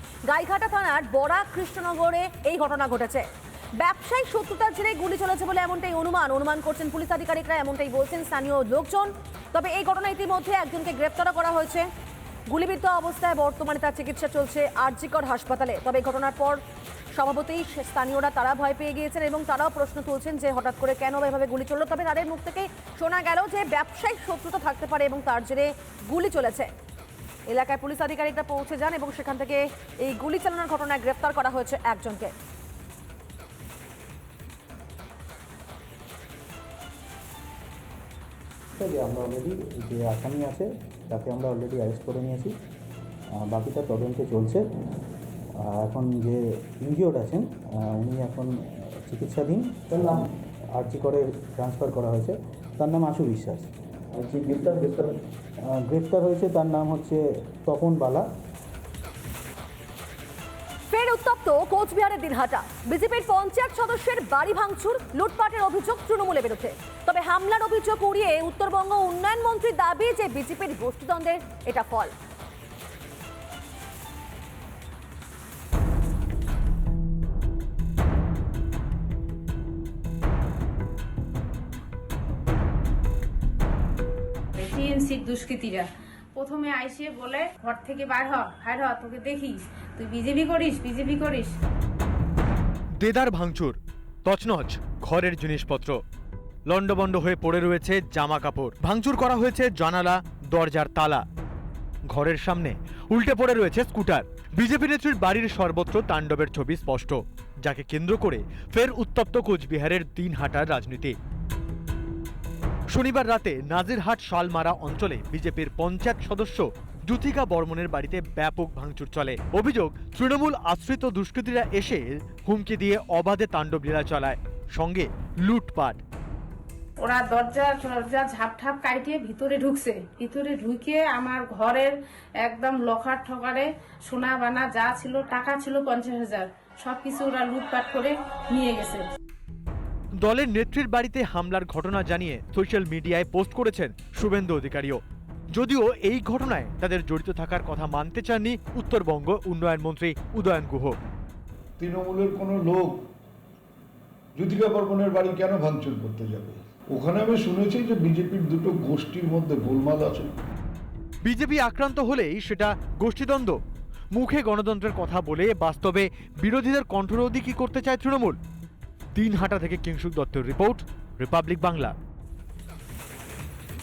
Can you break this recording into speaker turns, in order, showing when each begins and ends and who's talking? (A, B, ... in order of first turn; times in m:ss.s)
0:00.2-0:03.3 A
0:03.8-0:11.9 A
0:12.5-0:16.6 A
0:17.1-0:26.7 A
0:27.5-0:32.3 A
0:38.7-0:42.5 B
0:43.4-0:44.6 B
0:45.6-0:55.2 B
0:55.7-0:58.2 B
1:00.9-1:12.1 A
1:24.6-1:31.5 C
1:33.0-1:36.0 D
1:36.7-1:41.2 D
1:42.1-1:51.1 D
1:52.9-2:06.0 D
2:07.0-2:19.0 C
2:20.2-2:25.0 D
2:25.5-2:31.0 D
2:31.8-2:33.0 E
2:34.4-2:40.3 E
2:41.2-2:43.6 D
2:44.1-2:48.4 D
2:49.1-2:51.9 D